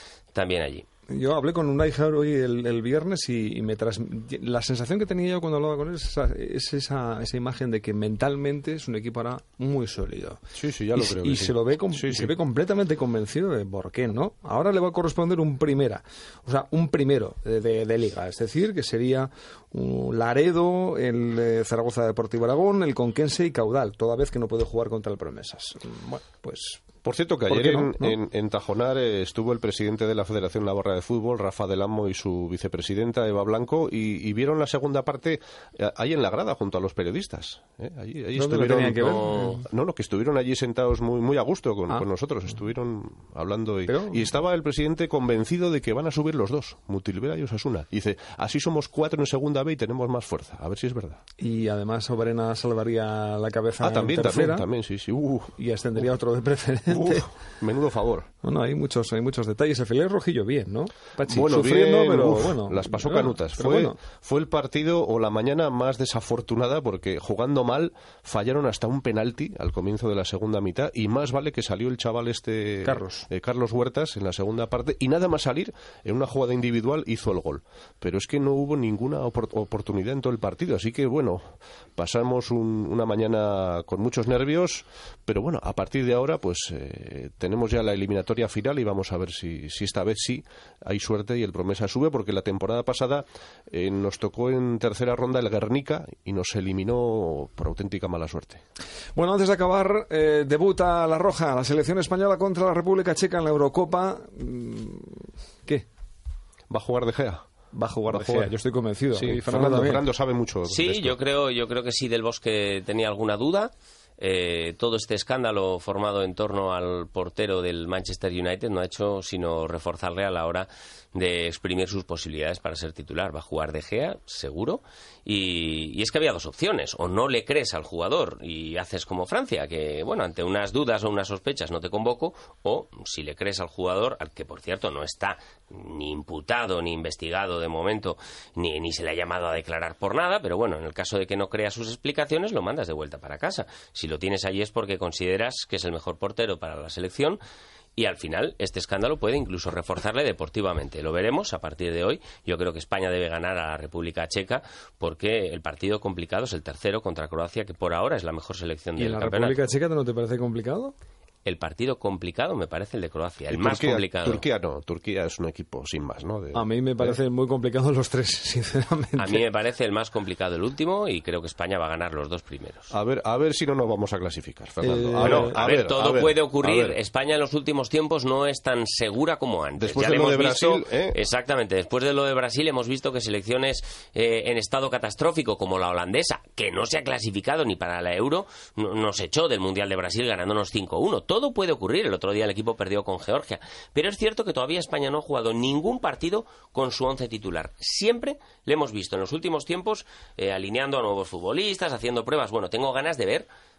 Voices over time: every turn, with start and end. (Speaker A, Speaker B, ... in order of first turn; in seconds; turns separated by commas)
Speaker A: 0.3-0.8, Speaker B: 1.1-10.4, Speaker C: 10.5-12.3, Speaker B: 10.9-26.9, Speaker C: 27.0-51.2, Speaker B: 27.5-28.2, Speaker B: 38.3-39.7, Speaker B: 43.9-44.3, Speaker B: 51.4-54.7, Speaker C: 53.8-55.5, Speaker B: 55.5-57.3, Speaker C: 56.9-58.3, Speaker B: 58.4-64.0, Speaker C: 61.2-81.4, Speaker B: 72.8-73.3, Speaker C: 82.0-98.6, Speaker B: 99.1-105.8, Speaker C: 106.7-107.4, Speaker B: 107.7-110.0, Speaker C: 108.1-108.5, Speaker C: 109.1-111.2, Speaker A: 110.7-147.4, Speaker A: 148.0-159.6, Speaker B: 158.9-160.9, Speaker A: 161.4-164.4, Speaker C: 163.5-167.2, Speaker B: 166.5-169.4, Speaker A: 169.2-172.9, Speaker C: 172.9-177.0, Speaker B: 174.8-175.6, Speaker A: 175.2-203.5, Speaker C: 179.8-181.2